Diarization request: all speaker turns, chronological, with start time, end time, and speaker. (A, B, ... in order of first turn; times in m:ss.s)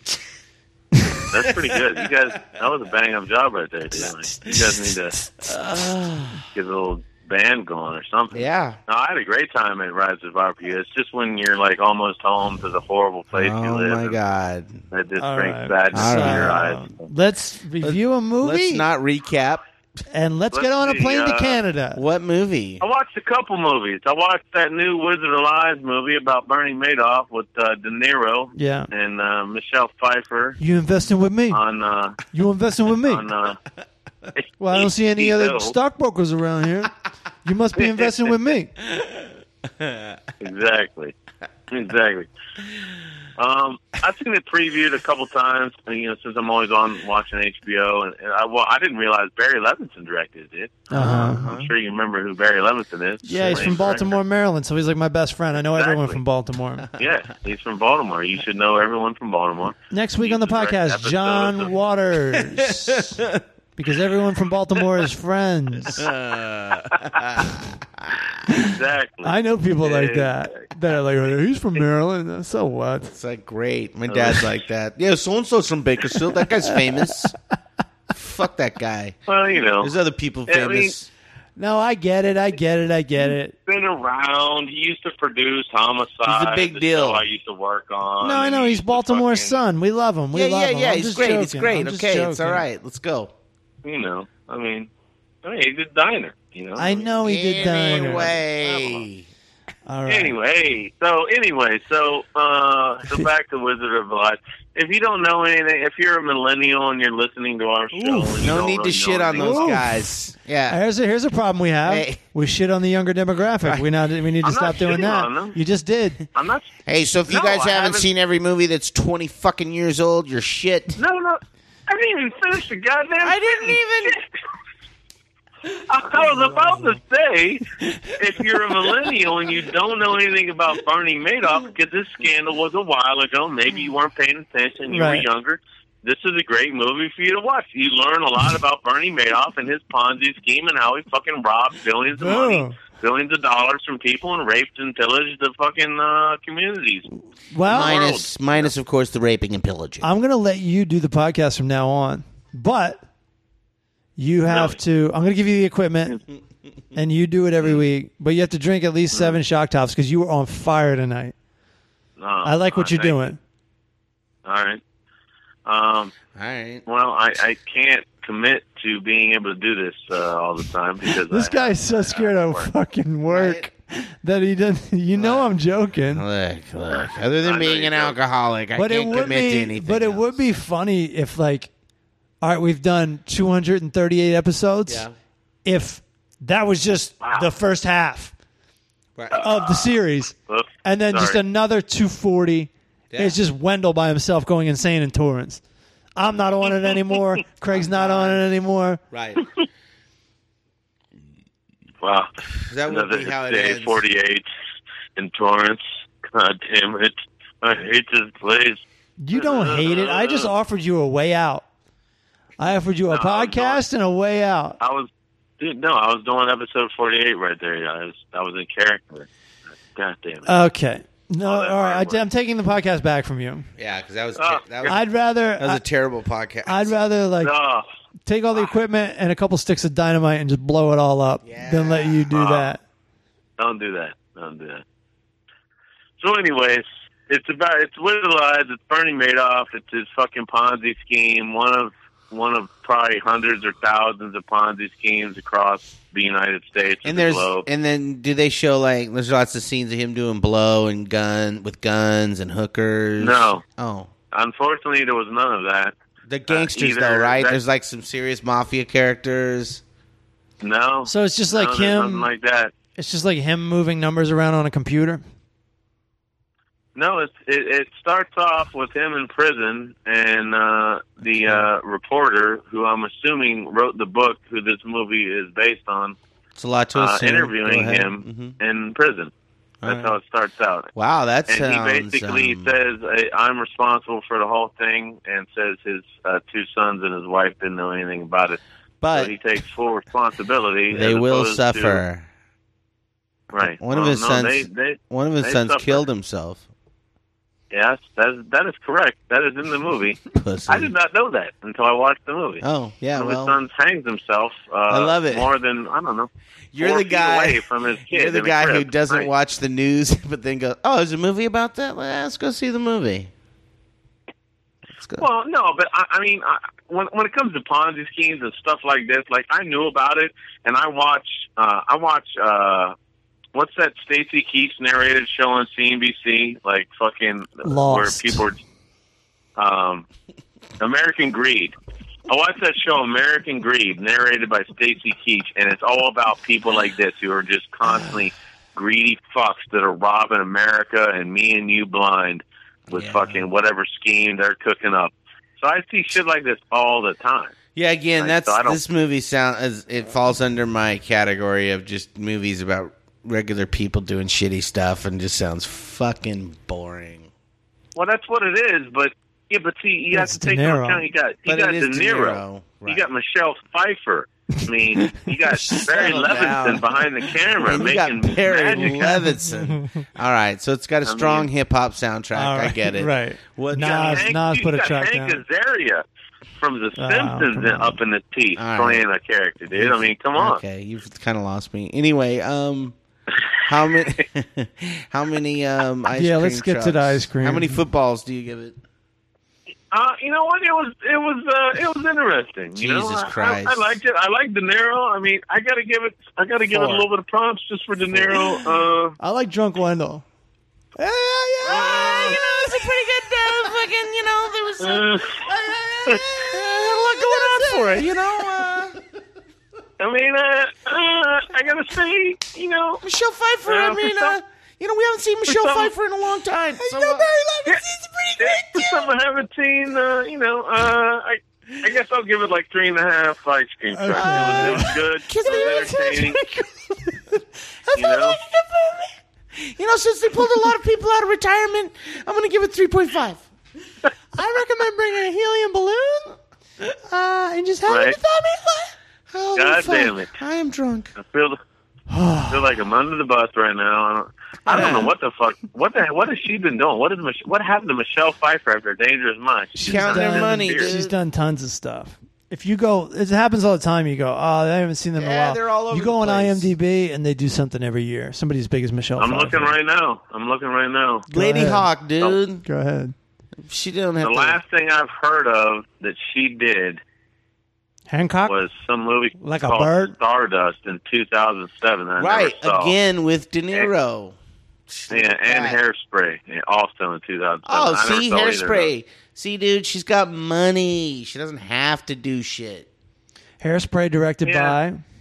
0:01.3-0:05.2 A
0:01.4-0:01.7 B
0:04.0-0:06.4 B
0:06.4-0:14.2 A
0:08.3-0:08.8 B
0:13.3-0:14.8 B
0:14.9-0:17.1 A
0:15.2-0:18.8 C
0:15.9-0:16.7 B
0:17.8-0:19.6 B
0:20.1-0:22.0 C
0:20.5-0:21.6 A
0:22.0-0:22.8 B
0:22.8-0:30.6 A
0:28.6-0:28.9 C
0:30.6-0:31.6 C
0:31.5-0:32.2 A
0:32.3-0:33.3 C
0:33.0-0:33.6 A
0:34.4-0:35.8 A
0:34.6-0:36.9 C
0:37.4-0:38.7 C
0:37.8-0:38.3 A
0:39.8-0:40.2 B
0:40.4-0:41.1 A
0:41.7-0:42.3 A
0:43.4-0:54.1 A
0:50.9-0:51.5 C
0:50.9-0:51.7 B
0:53.2-0:56.9 C
0:53.3-0:54.1 B
0:55.7-0:56.2 A
0:57.0-1:01.7 A
0:59.9-1:03.2 C
1:02.3-1:03.4 B
1:03.8-1:06.1 C
1:05.8-1:08.3 B
1:08.5-1:13.1 C
1:08.6-1:10.6 A
1:13.1-1:17.3 B
1:14.1-1:14.4 A
1:18.1-1:19.2 B
1:19.3-1:19.9 A
1:19.8-1:21.1 B
1:20.5-1:20.9 A
1:21.6-1:23.6 C
1:23.6-1:29.6 A
1:26.2-1:27.3 B
1:28.2-1:32.6 C
1:30.3-1:33.3 B
1:33.8-1:34.9 A
1:35.4-1:37.0 A
1:36.8-1:38.4 C
1:37.2-1:39.3 B
1:38.5-1:39.0 A
1:39.9-1:40.4 C
1:40.1-1:49.8 A
1:47.9-1:48.6 C
1:48.4-1:50.8 B
1:49.4-1:50.1 C
1:50.7-1:56.2 C
1:51.9-1:52.2 B
1:54.4-1:55.6 A
1:56.3-1:56.7 A
1:56.9-2:01.0 B
1:57.3-1:58.1 A
2:01.0-2:04.3 A
2:03.2-2:04.2 B
2:05.9-2:27.1 A
2:14.9-2:15.3 C
2:22.1-2:22.8 C
2:27.5-2:28.0 C
2:27.7-2:30.1 B
2:27.7-2:28.7 A
2:30.0-2:33.0 C
2:34.2-2:36.2 C
2:34.5-2:34.8 A
2:37.0-2:41.3 C
2:39.1-2:39.4 A
2:42.2-2:43.2 A
2:42.4-2:43.4 C
2:44.4-2:44.8 A
2:45.7-2:46.1 A
2:46.3-2:46.8 B
2:46.9-2:52.7 A
2:51.3-2:56.2 C
2:53.3-2:53.7 B
2:55.2-2:55.5 B
2:56.1-3:00.4 B
2:57.4-2:58.2 A
2:58.8-3:01.7 C
3:02.4-3:05.1 C
3:04.9-3:05.1 B
3:05.6-3:08.3 C
3:07.2-3:07.5 A
3:09.2-3:09.5 B
3:09.3-3:09.8 A
3:09.3-3:15.6 C
3:10.5-3:11.4 A
3:13.1-3:13.4 B
3:16.2-3:19.0 C
3:17.7-3:18.4 B
3:19.1-3:19.5 B
3:22.0-3:22.3 A
3:22.6-3:24.0 B
3:22.9-3:24.5 A
3:25.2-3:28.8 A
3:29.2-3:31.6 C
3:29.3-3:30.5 A
3:32.6-3:34.8 C
3:33.1-3:33.8 A
3:34.8-3:39.3 A
3:40.0-3:40.5 A
3:40.4-3:43.7 C
3:41.4-3:42.2 A
3:43.8-3:45.1 B
3:44.4-3:45.0 A
3:44.8-3:45.8 C
3:45.6-3:46.9 B
3:46.7-3:47.5 C
3:47.4-3:47.9 A
3:48.3-3:52.8 C
3:51.4-3:52.3 B
3:52.3-3:52.8 A
3:53.6-3:54.8 A
3:56.2-4:07.7 A
4:07.0-4:14.1 B
4:13.2-4:13.6 A
4:14.3-4:16.0 A
4:16.3-4:19.8 B
4:16.5-4:17.6 A
4:20.6-4:22.7 A
4:21.1-4:22.3 C
4:23.0-4:25.2 C
4:27.0-4:36.2 A
4:31.4-4:31.6 B
4:36.6-4:38.6 B
4:37.0-4:39.3 A
4:39.8-4:40.2 B
4:39.9-4:40.9 A
4:41.0-4:42.8 B
4:41.5-4:48.6 A
4:49.0-4:49.3 B
4:49.1-4:52.0 A
4:50.9-4:52.3 B
4:53.5-4:56.0 A
4:53.8-4:56.6 B
4:57.7-5:02.6 A
5:00.3-5:00.9 B
5:02.6-5:03.6 B
5:03.2-5:09.3 A
5:04.9-5:05.5 B
5:06.7-5:13.3 B
5:15.0-5:15.3 B
5:15.2-5:23.0 A
5:23.5-5:28.6 A
5:27.6-5:28.4 C
5:29.6-5:30.1 A
5:30.8-5:31.8 A
5:32.3-5:47.6 A
5:42.9-5:43.5 B
5:47.8-5:57.3 B
5:48.2-5:48.8 A
5:58.0-6:09.2 A
6:00.1-6:01.1 C
6:01.5-6:03.0 B
6:05.0-6:05.9 C
6:05.7-6:07.0 B
6:07.6-6:14.3 B
6:08.9-6:10.0 C
6:11.0-6:11.5 A
6:12.3-6:15.4 C
6:13.8-6:16.0 A
6:16.6-6:20.6 A
6:17.0-6:18.0 C
6:18.6-6:19.0 B
6:19.7-6:23.0 B
6:23.6-6:28.8 B
6:26.1-6:27.8 C
6:29.9-6:39.2 A
6:32.8-6:33.8 B
6:36.7-6:37.1 B
6:38.1-6:38.6 B
6:39.2-6:40.2 C
6:41.0-6:43.7 C
6:41.7-6:42.4 A
6:41.7-6:49.0 B
6:44.8-6:45.4 A
6:46.1-6:46.4 A
6:46.9-6:48.6 C
6:50.0-6:53.0 A
6:53.0-6:57.3 B
6:53.7-6:54.4 A
6:55.5-6:55.9 A
6:56.8-6:59.1 C
6:58.4-7:06.4 A
7:03.9-7:09.1 C
7:04.1-7:06.2 B
7:08.0-7:08.4 A
7:09.5-7:13.5 B
7:14.4-7:16.4 C
7:17.1-7:18.9 C
7:17.9-7:18.2 A
7:19.3-7:21.2 B
7:19.6-7:20.3 A
7:21.2-7:21.6 A
7:22.1-7:22.7 C
7:22.5-7:30.9 A
7:24.7-7:25.1 B
7:29.8-7:31.1 B
7:29.8-7:39.7 C
7:35.2-7:36.7 B
7:39.2-7:41.3 A
7:41.3-7:42.6 B
7:41.3-7:41.9 C
7:42.6-7:43.1 C
7:43.6-7:44.6 B
7:44.2-7:47.0 A
7:48.1-7:48.6 C
7:48.5-7:52.9 A
7:49.4-7:50.2 C
7:52.2-7:54.4 B
7:54.9-7:55.8 B
7:55.1-7:58.9 A
7:57.6-8:02.9 B
8:03.6-8:05.0 C
8:04.4-8:04.8 A